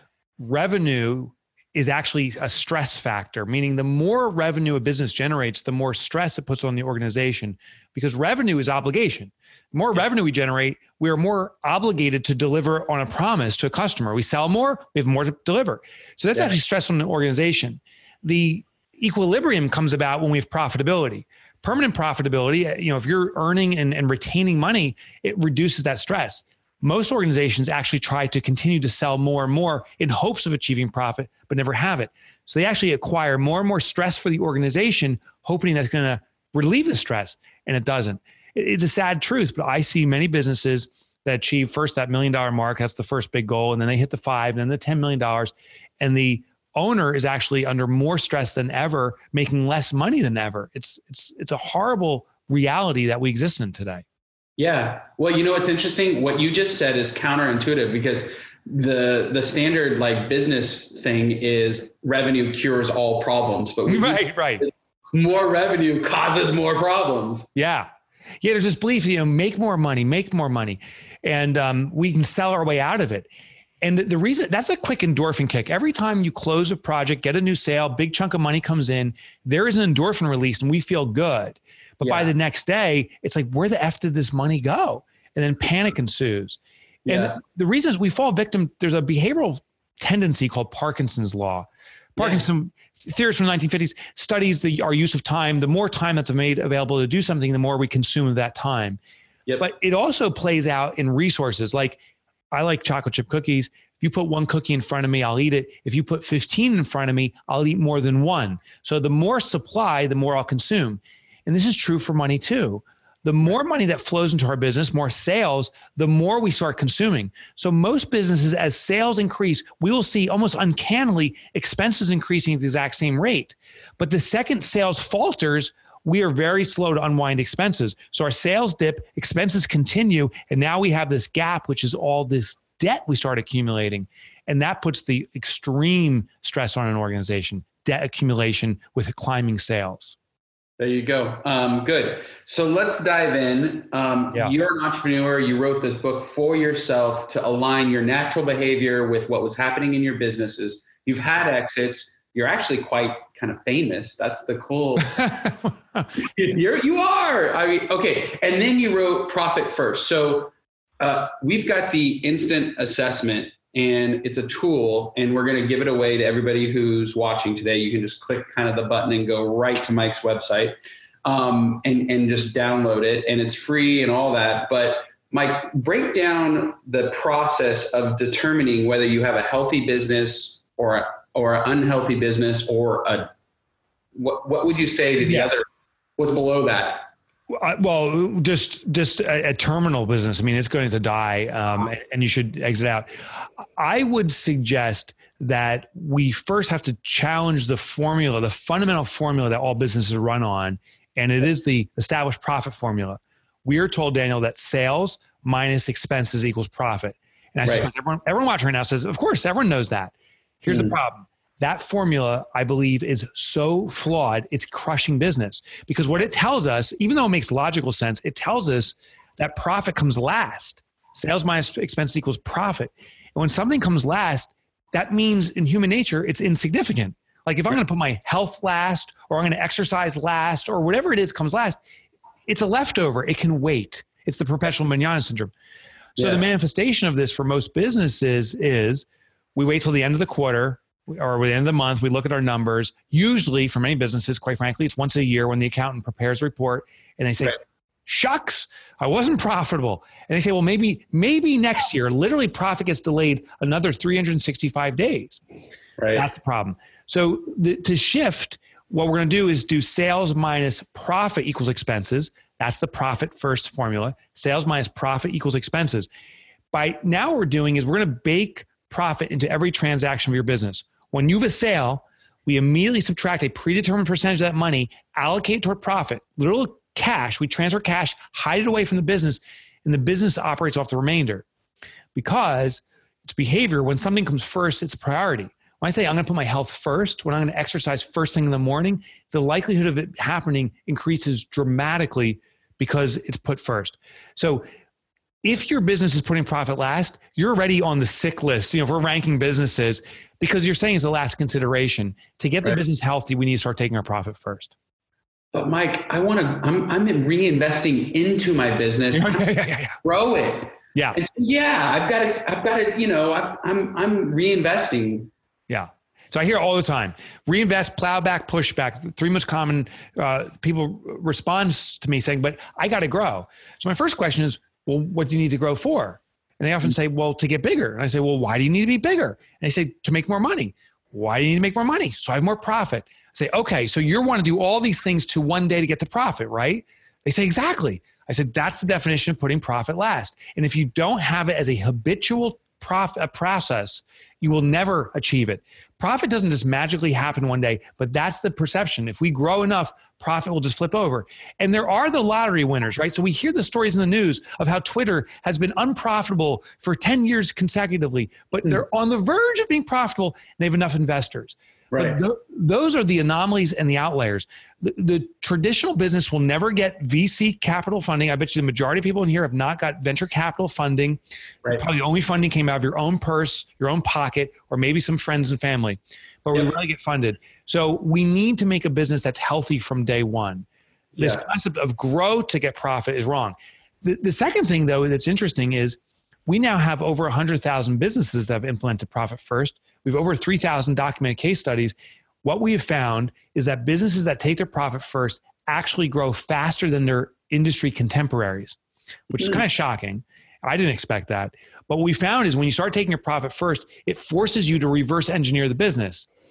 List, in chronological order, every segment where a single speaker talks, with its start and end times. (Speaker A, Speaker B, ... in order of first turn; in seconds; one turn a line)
Speaker A: 0.4-54.0
Speaker B: 54.6-67.5
Speaker A: 63.9-64.7
Speaker A: 67.5-67.9
Speaker A: 68.4-73.3
Speaker A: 73.8-99.0
Speaker B: 82.0-82.3
Speaker B: 87.0-87.4
Speaker B: 92.2-92.5
Speaker A: 99.6-102.0
Speaker A: 102.5-140.2
Speaker B: 140.8-155.2
Speaker A: 155.1-155.6
Speaker B: 156.2-183.3
Speaker B: 184.2-185.7
Speaker A: 185.2-185.5
Speaker B: 186.2-187.1
Speaker A: 187.5-193.1
Speaker A: 193.8-231.8
Speaker B: 210.7-210.9
Speaker A: 232.5-235.5
Speaker B: 236.2-236.4
Speaker A: 236.2-255.4
Speaker B: 256.0-256.3
Speaker A: 256.1-266.1
Speaker A: 266.7-281.5
Speaker A: 282.1-294.6
Speaker A: 295.4-304.7
Speaker B: 305.5-315.3
Speaker A: 309.1-310.0
Speaker A: 315.7-380.7
Speaker B: 361.9-362.2
Speaker B: 381.1-381.4
Speaker A: 381.2-398.8
Speaker A: 399.3-406.3
Speaker B: 399.4-399.6